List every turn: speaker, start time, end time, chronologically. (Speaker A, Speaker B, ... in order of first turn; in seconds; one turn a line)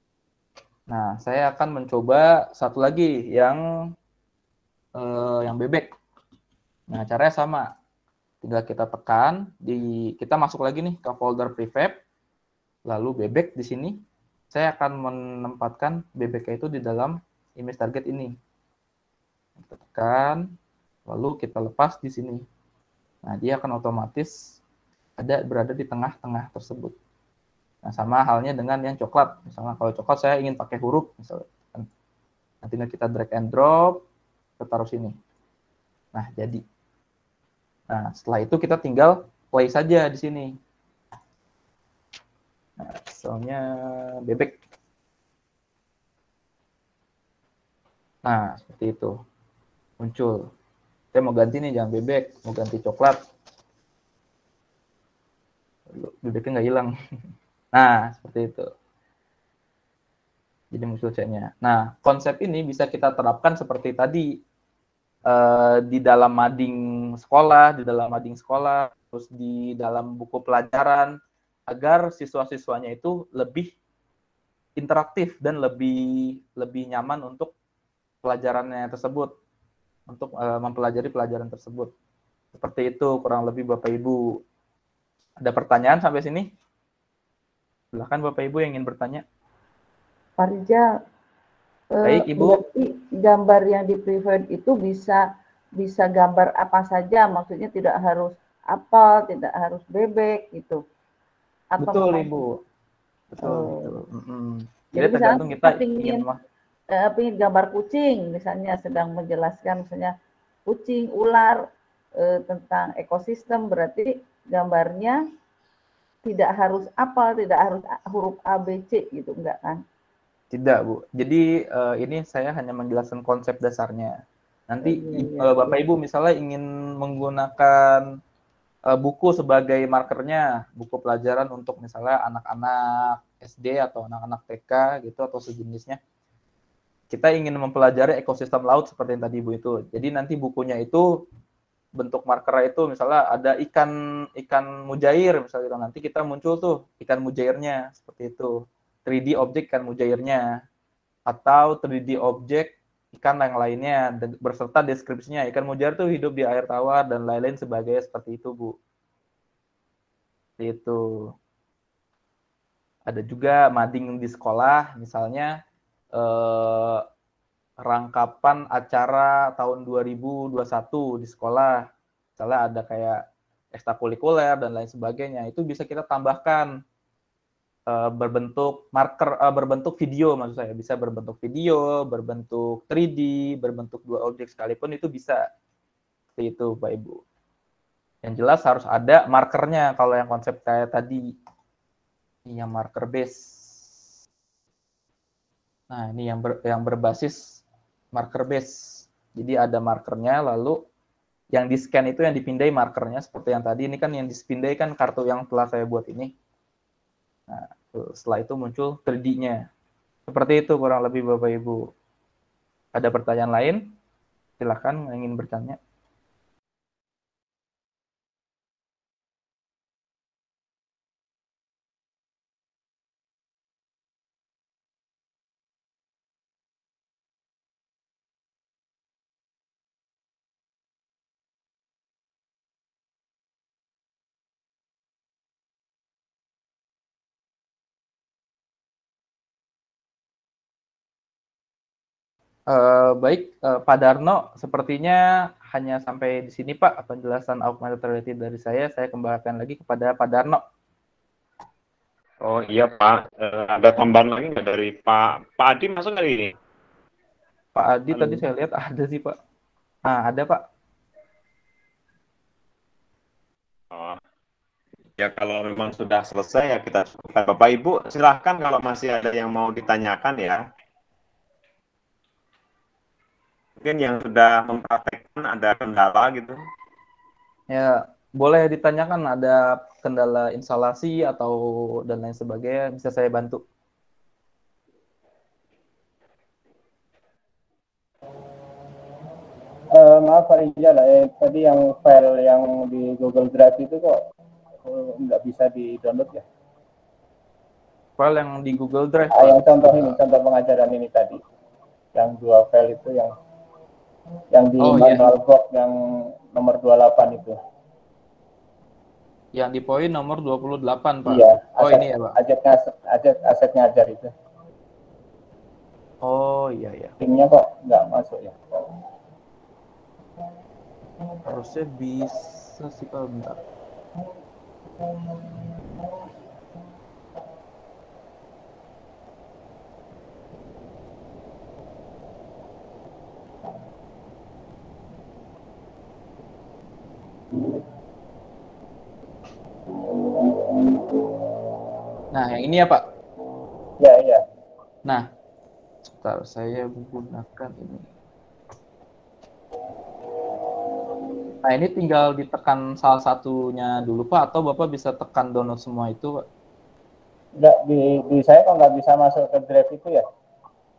Speaker A: 0.9-3.6
Speaker A: 5.0-5.9
Speaker A: 6.9-7.7
Speaker A: 8.4-12.0
Speaker A: 12.9-14.0
Speaker A: 14.5-18.3
Speaker A: 19.6-20.4
Speaker A: 21.1-22.4
Speaker A: 23.2-24.3
Speaker A: 25.2-26.9
Speaker A: 27.8-31.9
Speaker A: 32.6-34.0
Speaker A: 34.6-35.1
Speaker A: 36.1-36.6
Speaker A: 37.9-40.5
Speaker A: 42.8-43.6
Speaker A: 44.2-44.5
Speaker A: 48.2-49.1
Speaker A: 50.0-50.5
Speaker A: 51.1-53.2
Speaker A: 55.9-56.9
Speaker A: 57.8-58.7
Speaker A: 60.7-64.3
Speaker A: 65.3-71.1
Speaker A: 71.7-73.7
Speaker A: 74.8-77.5
Speaker A: 78.2-79.3
Speaker A: 80.1-81.9
Speaker A: 82.5-84.3
Speaker A: 85.4-86.5
Speaker A: 87.9-89.2
Speaker B: 90.4-90.9
Speaker B: 91.9-95.2
Speaker A: 92.0-92.6
Speaker B: 95.8-100.8
Speaker B: 101.7-102.3
Speaker A: 101.8-102.5
Speaker A: 103.3-106.4
Speaker B: 103.4-103.8
Speaker B: 105.0-106.2
Speaker B: 106.9-110.1
Speaker B: 110.7-111.6
Speaker B: 112.2-115.2
Speaker B: 116.2-119.8
Speaker A: 120.5-124.2
Speaker A: 124.7-128.1
Speaker B: 124.8-125.7
Speaker A: 128.9-136.0
Speaker A: 137.1-141.1
Speaker A: 142.0-148.6
Speaker A: 149.1-150.4
Speaker A: 151.3-158.7
Speaker A: 160.6-161.1
Speaker A: 163.1-165.5
Speaker A: 166.2-167.0
Speaker A: 167.9-171.9
Speaker A: 172.4-173.2
Speaker A: 173.7-176.7
Speaker A: 177.9-185.4
Speaker A: 186.4-187.2
Speaker A: 188.2-191.3
Speaker A: 192.5-193.4
Speaker A: 195.9-197.6
Speaker A: 198.1-200.8
Speaker A: 201.5-206.3
Speaker A: 207.5-209.6
Speaker A: 210.3-211.8
Speaker A: 212.9-213.8
Speaker A: 214.6-215.8
Speaker A: 242.7-245.2
Speaker A: 245.7-250.6
Speaker C: 252.4-256.5
Speaker A: 257.7-259.4
Speaker A: 260.1-260.6
Speaker C: 263.9-264.2
Speaker C: 265.2-270.6
Speaker C: 273.8-276.6
Speaker A: 277.7-283.6
Speaker D: 289.9-294.1
Speaker D: 294.8-296.4
Speaker A: 298.2-300.1
Speaker D: 299.3-301.4
Speaker D: 302.1-303.3
Speaker D: 304.5-305.9
Speaker A: 304.8-305.3
Speaker D: 306.5-307.6
Speaker A: 309.6-312.4
Speaker D: 311.2-314.3
Speaker A: 316.2-317.1
Speaker D: 317.2-318.6
Speaker A: 321.5-323.6
Speaker A: 342.3-343.0
Speaker D: 344.0-344.4
Speaker A: 346.2-348.1
Speaker A: 351.6-356.3
Speaker D: 357.6-360.2